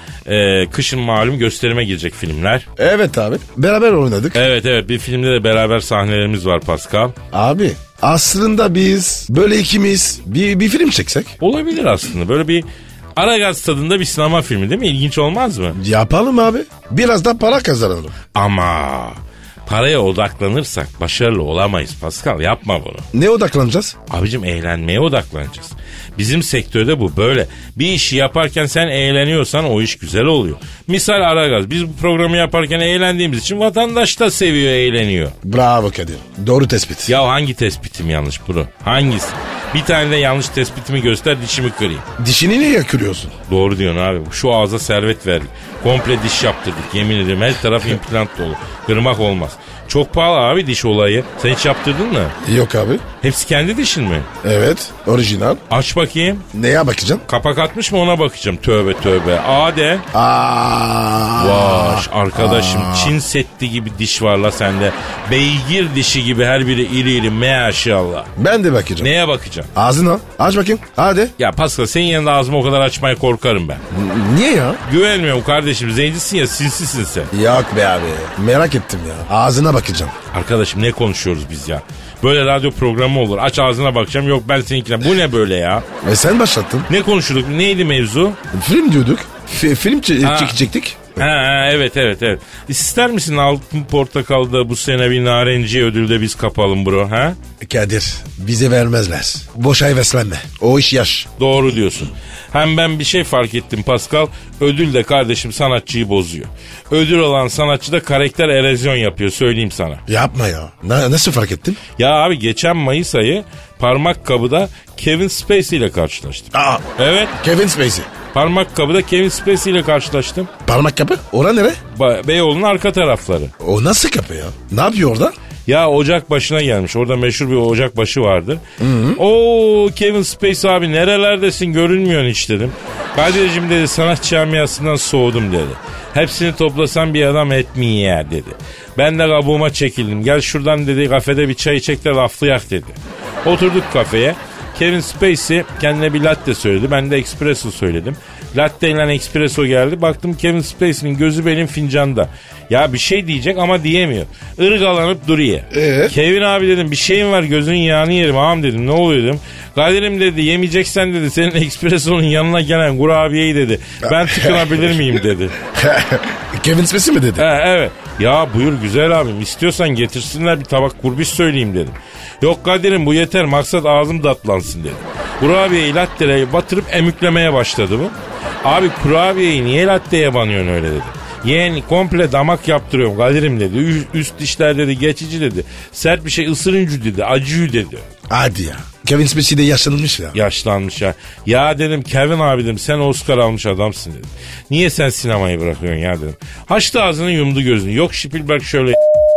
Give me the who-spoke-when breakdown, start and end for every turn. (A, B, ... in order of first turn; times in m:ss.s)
0:00.2-0:02.6 A
0:02.8-0:04.4 B
0:04.3-0:07.1 A
0:07.3-0:11.3 B
0:11.4-0:15.8 A
0:15.7-0:18.2 B
0:18.3-0:23.1 A
0:23.1-0:24.0 B
0:24.1-0:35.3 A
0:35.4-0:37.1 B
0:37.1-0:42.0 A
0:42.2-0:43.3 B
0:43.5-0:52.3 A
0:52.4-0:53.0 B
0:53.2-0:54.3 A
0:54.4-0:55.6 B
0:55.7-0:56.4 A
0:56.5-0:57.2 B
0:57.3-1:00.0 A
1:00.1-1:03.2 B
1:01.4-1:08.3 A
1:08.4-1:09.1 B
1:09.0-1:09.7 A
1:09.7-1:11.3 B
1:11.4-1:13.8 A
1:13.9-1:14.8 B
1:14.8-1:17.3 A
1:17.3-1:20.1 B
1:20.3-1:25.8 A
1:26.0-1:26.9 B
1:26.9-1:28.4 A
1:28.5-1:31.2 B
1:30.2-1:30.6 A
1:31.2-1:37.4 A
1:37.6-1:41.3 B
1:41.4-1:50.0 A
1:50.1-1:51.8 B
1:52.0-1:57.3 A
1:56.5-1:56.8 B
1:57.4-1:58.1 B
1:58.3-2:00.5 A
2:00.6-2:01.8 B
2:01.9-2:03.5 A
2:03.6-2:05.3 B
2:05.7-2:08.6 A
2:08.8-2:09.2 B
2:09.2-2:45.6 A
2:35.7-2:36.1 B
2:44.0-2:47.4 B
2:47.4-3:08.1 A
3:08.3-3:10.4 B
3:10.3-3:19.0 A